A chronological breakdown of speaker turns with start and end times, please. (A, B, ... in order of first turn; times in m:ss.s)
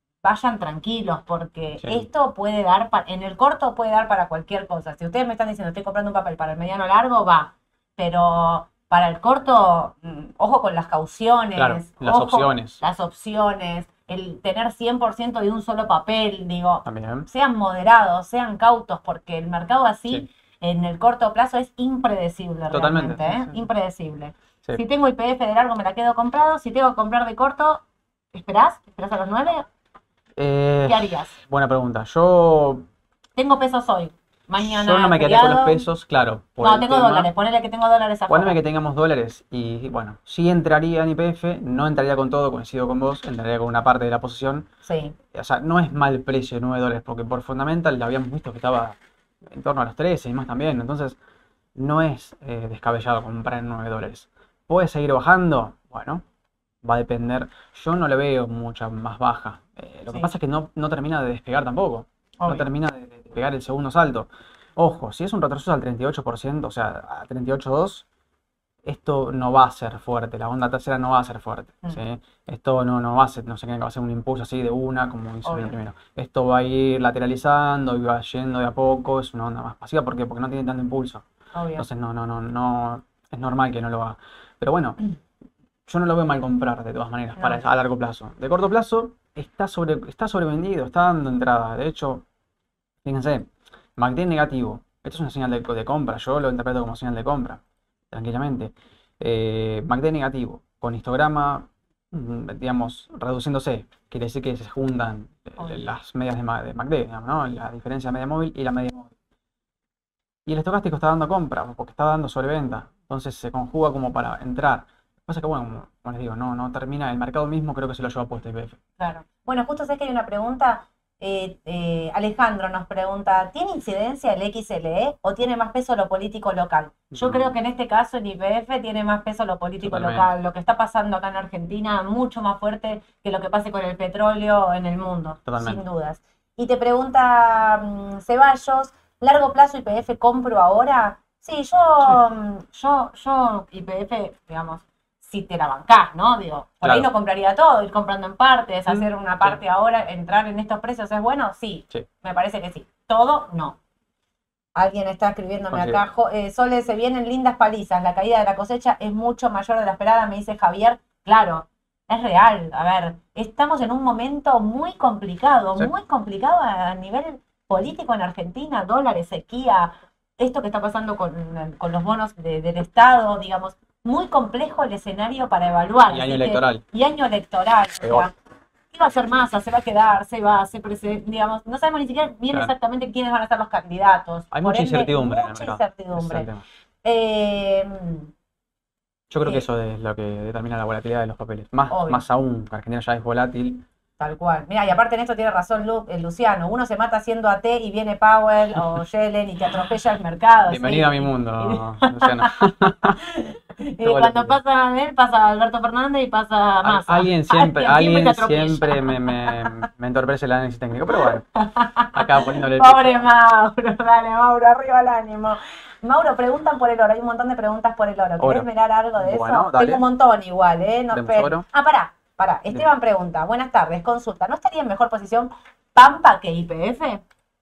0:00.2-0:29.7 A
0:01.8-0:02.0 B
0:11.6-0:12.8 B
0:16.8-0:17.3 B
0:22.7-0:23.6 B
0:30.4-0:32.9 B
0:30.9-0:31.4 A
0:33.4-0:35.8 A
0:34.6-0:37.3 B
0:36.6-0:38.6 A
0:38.3-0:44.7 B
0:44.8-0:45.2 A
0:45.3-0:51.2 B
0:51.8-0:56.2 B
0:56.8-1:08.0 B
1:02.4-1:02.6 A
1:08.8-1:21.2 B
1:15.4-1:15.7 A
1:21.5-1:21.8 A
1:21.8-1:25.0 B
1:25.8-1:32.2 B
1:33.0-1:37.6 B
1:38.1-1:49.1 B
1:50.4-1:58.8 B
1:59.0-2:33.8 A
2:07.1-2:07.5 B
2:09.8-2:10.3 B
2:15.5-2:15.8 B
2:26.8-2:27.1 B
2:28.9-2:29.6 B
2:34.7-2:58.3 A
2:35.7-2:36.0 B
2:56.1-2:56.8 B
2:58.0-2:58.3 B
2:58.9-3:06.5 A
3:04.5-3:06.6 B
3:07.0-3:08.3 A
3:09.3-3:13.8 B
3:11.9-3:12.2 A
3:14.2-3:29.7 A
3:20.7-3:23.2 B
3:24.0-3:24.6 B
3:26.8-3:31.4 B
3:31.2-3:47.2 A
3:32.1-3:33.3 B
3:38.4-3:40.0 B
3:41.1-3:41.6 B